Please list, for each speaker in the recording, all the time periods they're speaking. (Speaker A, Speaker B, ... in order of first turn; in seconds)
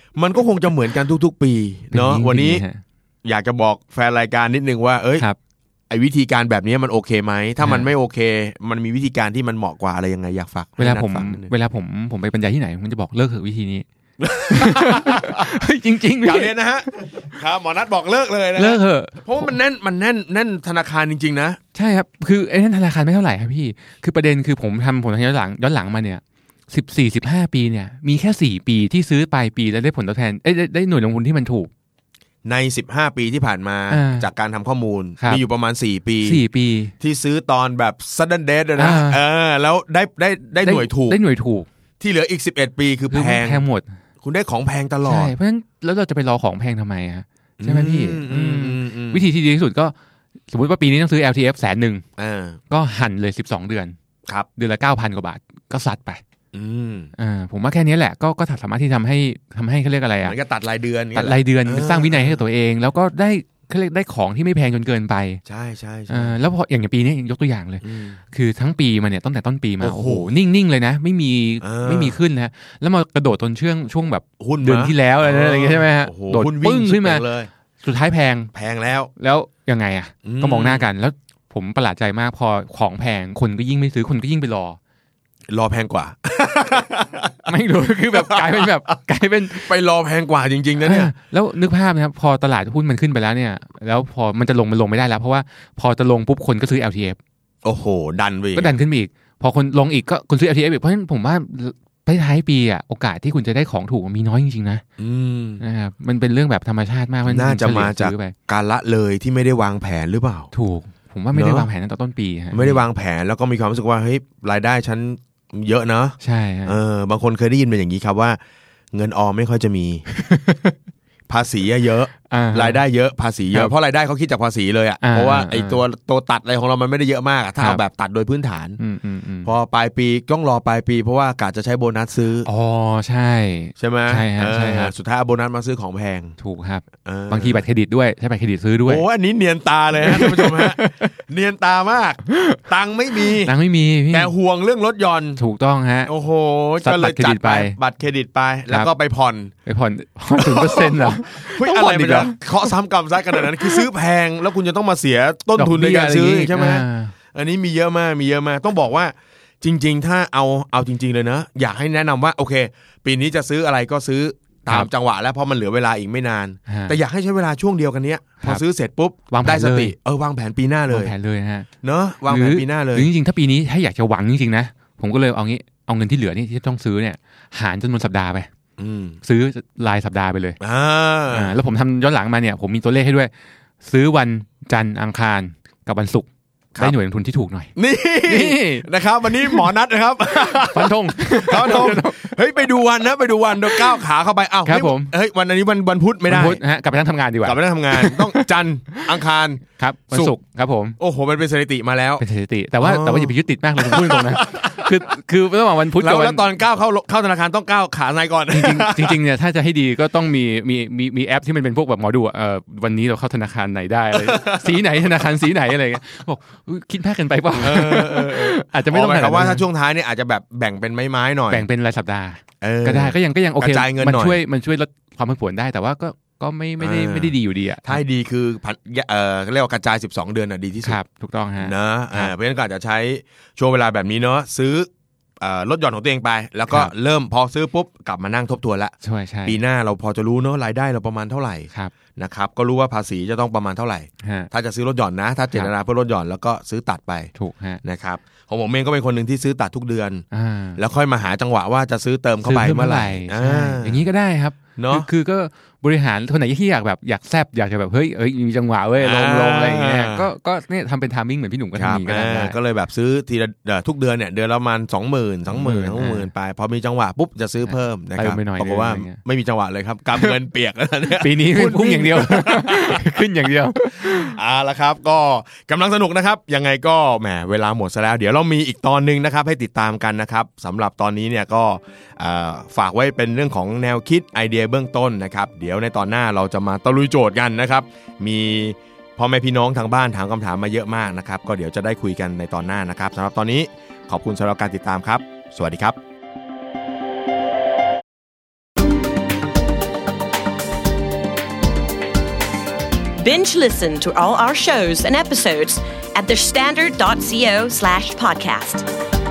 Speaker A: 0.1-2.6, 3.2-5.2, 5.9-11.5, 14.2-15.5, 16.2-21.6, 32.4-36.4, 37.0-41.2, 42.0-43.6, 44.2-45.3, 47.6-49.2, 52.2-52.6, 56.5-57.1, 60.2-62.4, 65.5-66.4, 67.8-68.2, 69.8-70.3, 71.6-72.2, 74.4-77.5, 78.5-79.1, 80.2-80.8, 85.5-87.5, 88.1-88.8, 89.6-91.1, 97.6-98.7, 105.0-105.6, 107.2-110.5, 111.3-111.7, 112.5-118.4, 118.9-120.1, 121.3-128.8, 129.4-132.5, 133.8-136.4, 137.0-137.6, 138.9-143.5, 144.1-145.4, 146.1-149.5, 150.4-171.1, 171.8-173.1, 178.8-179.2, 180.6-181.6, 187.8-196.6, 197.4-200.3, 201.0-202.2, 202.8-204.9, 206.0-209.2, 214.2-214.7, 217.6-221.7, 222.6-224.4, 226.8-231.0, 231.6-234.9, 235.4-238.9, 239.4-250.2, 250.8-254.0, 254.8-255.1, 259.0-260.3, 261.8-273.2, 274.0-295.9
Speaker B: 1.9-2.8, 7.6-7.9, 10.8-13.9, 14.5-16.5, 18.6-19.5, 21.7-31.7, 33.9-34.3, 36.2-36.9, 38.8-39.2, 40.6-41.7, 43.1-43.9, 45.0-49.9, 50.5-52.0, 52.7-54.0, 54.6-56.2, 57.2-60.4, 61.1-65.4, 66.1-77.2, 77.8-78.5, 79.2-84.8, 87.5-89.7, 90.8-97.2, 98.5-104.8, 105.6-108.3, 110.5-112.8, 116.2-116.8, 120.1-120.7, 122.3-122.8, 125.0-125.8, 128.8-129.5, 132.4-134.9, 136.4-139.0, 140.0-141.1, 142.3-142.6, 143.4-144.3, 145.4-146.1, 146.8-147.8, 149.7-152.7, 153.3-153.9, 155.6-157.1, 166.7-167.0, 169.3-169.9, 170.9-171.7, 172.3-178.5, 179.2-180.6, 181.3-183.3, 183.8-186.3, 186.8-187.7, 188.2-188.9, 189.4-189.7, 190.5-192.4, 193.6-194.0, 194.7-195.1, 196.3-199.2, 199.8-201.0, 202.2-206.4, 208.5-219.6, 221.5-228.0, 230.8-232.3, 239.0-239.6, 244.2-244.5, 247.4-247.8, 250.3-250.8, 252.4-262.6, 265.5-266.3, 267.6-269.2, 271.1-274.4
Speaker C: 303.2-308.9